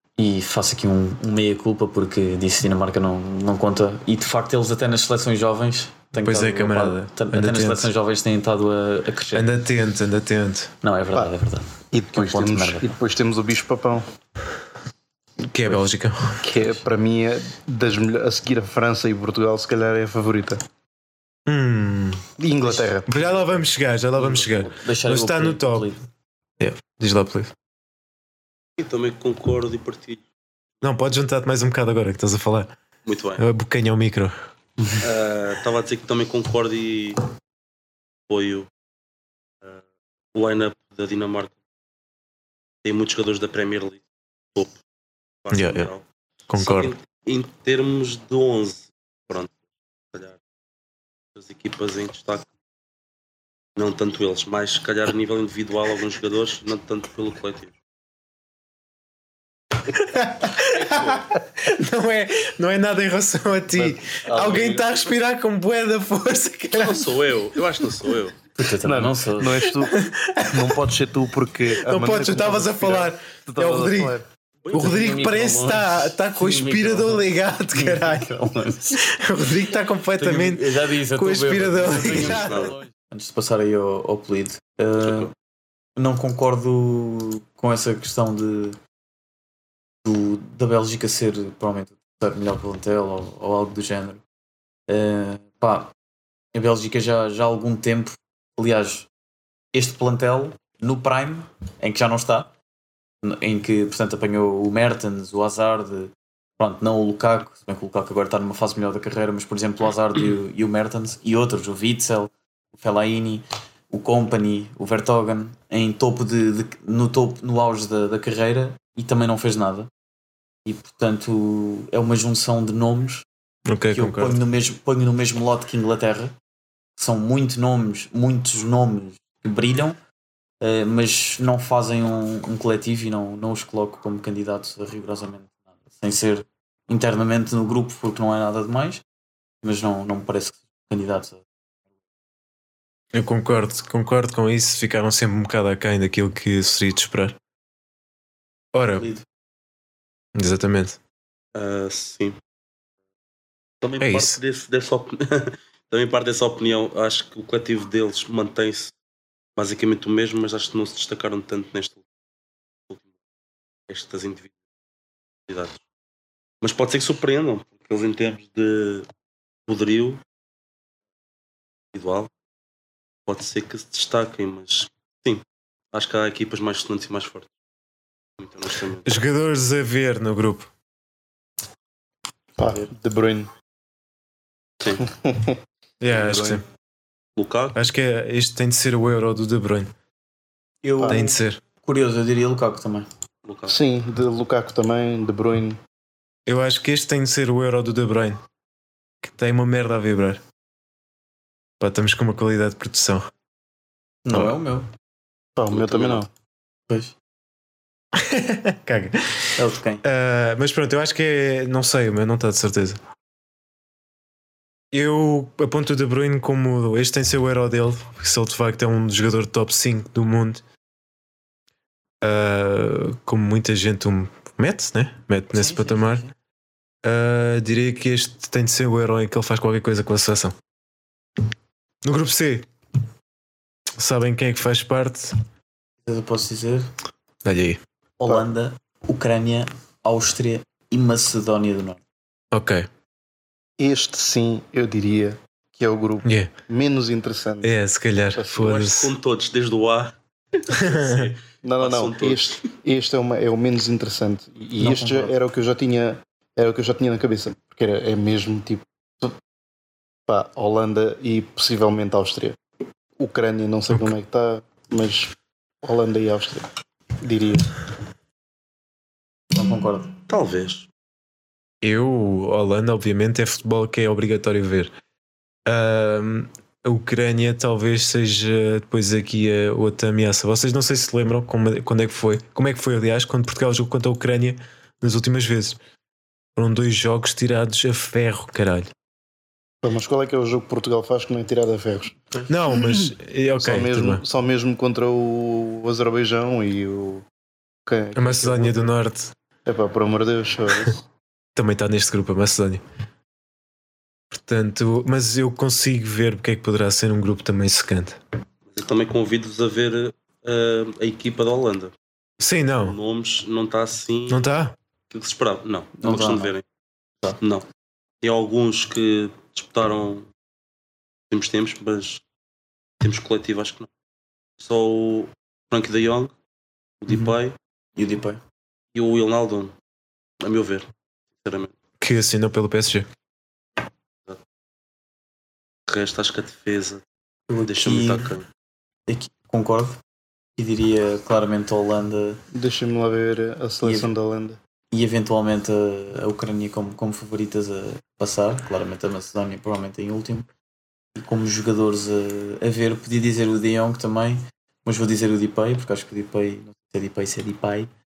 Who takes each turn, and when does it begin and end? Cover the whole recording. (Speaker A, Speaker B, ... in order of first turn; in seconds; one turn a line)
Speaker A: 0.2-9.5
Speaker B: 6.1-7.9
Speaker B: 9.3-10.7
Speaker A: 10.8-12.9
Speaker C: 11.9-14.1
Speaker B: 15.5-16.4
Speaker C: 16.4-20.6
Speaker B: 21.5-22.2
Speaker C: 22.4-23.3
Speaker A: 22.6-22.9
Speaker B: 23.1-25.9
Speaker A: 24.1-26.0
Speaker B: 26.6-27.5
Speaker D: 28.8-30.2
Speaker B: 30.8-32.8
Speaker D: 33.0-33.4
Speaker B: 33.4-34.3
Speaker D: 35.0-37.2
Speaker D: 38.3-38.7
Speaker D: 40.3-41.5
Speaker D: 42.8-44.0
Speaker D: 45.4-46.0
Speaker B: 45.5-45.9
Speaker B: 46.5-46.9
Speaker D: 46.5-49.5
Speaker D: 50.1-50.4
Speaker D: 51.4-52.5
Speaker D: 53.8-57.7
Speaker B: 59.9-67.2
Speaker D: 60.6-61.3
Speaker A: 63.8-64.8
Speaker D: 64.3-64.9
Speaker D: 66.7-68.4
Speaker A: 68.5-69.7
Speaker C: 68.8-74.2
Speaker B: 69.8-70.8
Speaker B: 71.7-74.2
Speaker D: 74.7-75.0
Speaker B: 74.7-78.3
Speaker A: 74.7-79.0
Speaker B: 78.9-82.7
Speaker A: 80.2-85.3
Speaker D: 81.9-82.8
Speaker D: 85.0-85.3
Speaker A: 86.0-88.8
Speaker A: 90.0-94.2
Speaker A: 94.9-95.9
Speaker A: 96.5-99.1
Speaker A: 99.7-102.5
Speaker A: 103.2-119.9
Speaker A: 120.6-123.2
Speaker B: 123.7-124.4
Speaker A: 123.9-126.3
Speaker A: 127.0-130.0
Speaker A: 130.6-139.0
Speaker A: 139.6-141.4
Speaker B: 143.1-147.4
Speaker B: 148.7-149.1
Speaker A: 148.9-149.2
Speaker B: 150.3-151.0
Speaker D: 151.5-152.4
Speaker D: 153.8-158.9
Speaker B: 154.0-154.4
Speaker D: 159.6-162.0
Speaker D: 163.9-164.5
Speaker D: 165.5-165.8
Speaker D: 166.6-169.1
Speaker D: 169.7-170.2
Speaker D: 171.9-172.3
Speaker D: 173.2-177.5
Speaker D: 178.4-179.1
Speaker B: 179.0-180.7
Speaker C: 182.6-183.5
Speaker C: 185.0-186.6
Speaker B: 186.0-186.6
Speaker D: 187.4-187.8
Speaker B: 187.8-189.9
Speaker A: 190.8-193.1
Speaker C: 191.0-191.3
Speaker B: 191.1-191.6
Speaker D: 193.4-193.8
Speaker C: 193.7-195.8
Speaker B: 196.4-198.4
Speaker B: 199.2-200.4
Speaker B: 201.8-203.3
Speaker A: 204.2-204.9
Speaker C: 205.6-206.3
Speaker D: 205.7-206.2
Speaker A: 206.9-207.1
Speaker B: 208.1-209.5
Speaker A: 209.6-210.0
Speaker B: 210.0-213.0
Speaker B: 214.9-220.6
Speaker B: 222.2-226.2
Speaker A: 225.5-226.3
Speaker B: 227.0-230.6
Speaker B: 232.0-232.7
Speaker B: 234.0-235.4
Speaker A: 236.0-236.9
Speaker B: 237.4-237.8
Speaker A: 238.2-242.0
Speaker B: 242.5-242.9
Speaker C: 243.8-247.7
Speaker B: 246.2-246.5
Speaker B: 247.6-249.1
Speaker C: 248.3-248.8
Speaker D: 248.6-252.6
Speaker B: 250.7-251.3
Speaker C: 251.6-259.4
Speaker A: 254.8-255.4
Speaker C: 260.3-262.6
Speaker C: 263.2-266.7
Speaker B: 263.9-264.1
Speaker C: 267.2-267.7
Speaker A: 269.5-270.1
Speaker D: 270.3-270.9
Speaker B: 271.8-274.9
Speaker B: 275.6-285.8
Speaker B: 286.6-288.9
Speaker C: 289.8-297.2
Speaker B: 292.5-294.2
Speaker C: 297.9-298.9
Speaker B: 298.1-299.3
Speaker C: 299.6-301.0
Speaker B: 301.6-302.8
Speaker B: 304.3-308.2
Speaker D: 308.7-311.9
Speaker B: 312.4-313.0
Speaker D: 312.8-314.4
Speaker B: 314.3-314.8
Speaker D: 315.1-316.6
Speaker A: 316.0-316.5
Speaker D: 318.2-320.2
Speaker D: 321.3-322.2
Speaker D: 323.0-323.9
Speaker D: 324.6-326.3
Speaker D: 327.0-327.5
Speaker A: 327.9-328.4
Speaker D: 328.9-329.7
Speaker D: 330.4-330.9
Speaker D: 331.4-331.7
Speaker B: 332.0-333.1
Speaker D: 335.9-337.0
Speaker A: 337.5-338.3
Speaker D: 337.7-338.4
Speaker A: 339.1-340.0
Speaker A: 340.6-342.4
Speaker C: 342.5-344.6
Speaker A: 343.8-344.1
Speaker A: 344.9-350.5
Speaker A: 351.1-357.9